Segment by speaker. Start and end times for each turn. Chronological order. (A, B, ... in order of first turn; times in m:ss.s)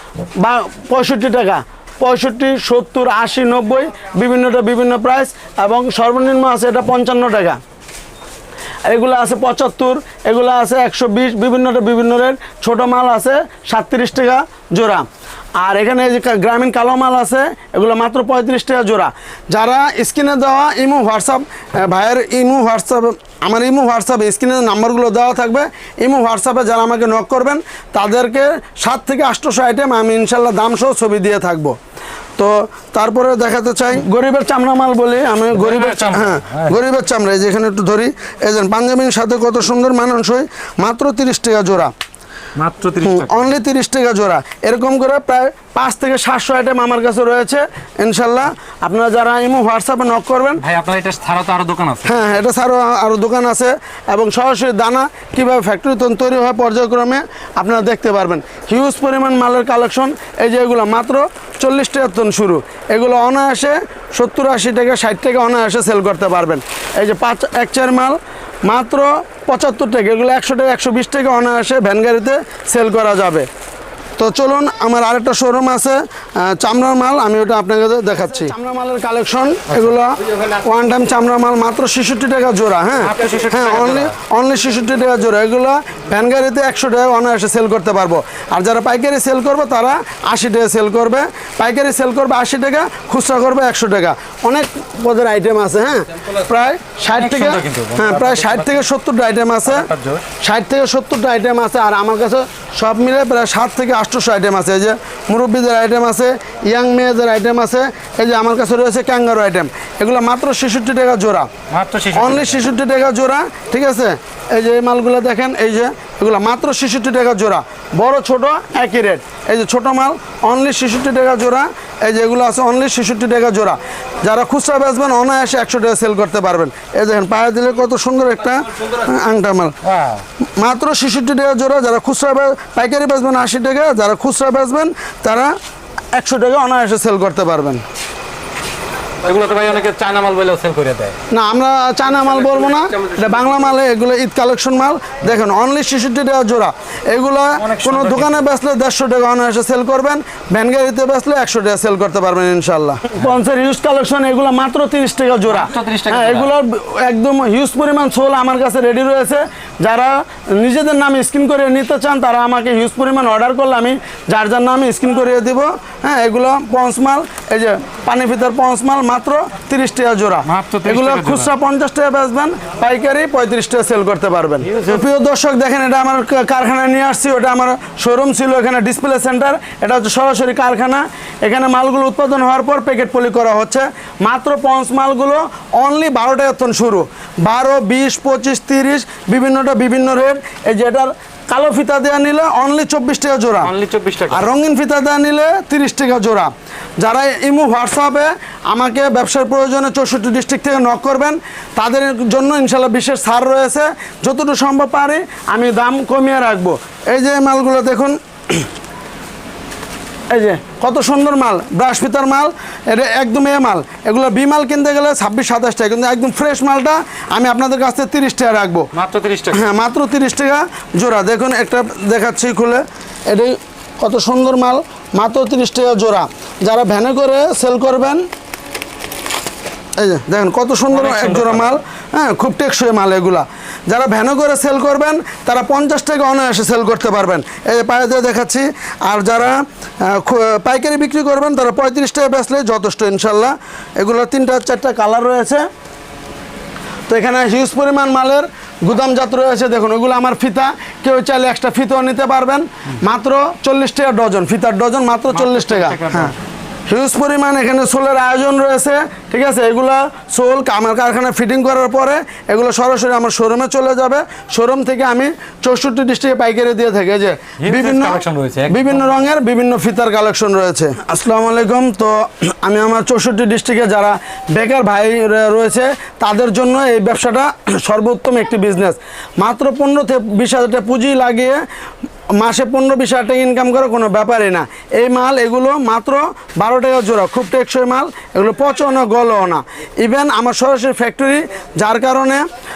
0:00.4-0:07.6 A
0:08.9-0:15.1 A
0:15.6-0:31.8 A
0:32.4-0:41.9 A
0:35.5-0:36.8 B
0:42.6-0:43.5 B
0:43.0-0:50.6 A
0:50.6-0:52.3 B
0:52.0-1:13.5 A
1:14.2-1:39.9 A
1:19.7-1:20.0 B
1:23.0-1:24.2 B
1:37.2-1:38.8 B
1:39.6-1:40.3 B
1:40.4-1:51.5 A
1:51.7-1:52.7 B
1:52.1-2:09.8 A
2:09.8-2:10.2 B
2:10.6-2:15.6 A
2:16.1-2:17.8 A
2:19.2-2:21.2 B
2:21.3-3:13.7 A
2:27.6-2:28.4 B
2:35.5-2:36.5 B
2:50.4-2:51.5 B
2:54.7-2:55.0 B
3:13.6-3:14.5 B
3:14.3-3:28.7 A
3:30.3-3:38.9 A
3:38.9-3:39.7 B
3:39.5-3:48.2 A
3:50.0-4:05.6 A
3:50.9-3:51.8 B
4:07.1-4:16.3 A
4:15.3-4:16.4 B
4:16.9-4:41.6 A
4:27.6-4:29.2 B
4:42.4-4:52.4 A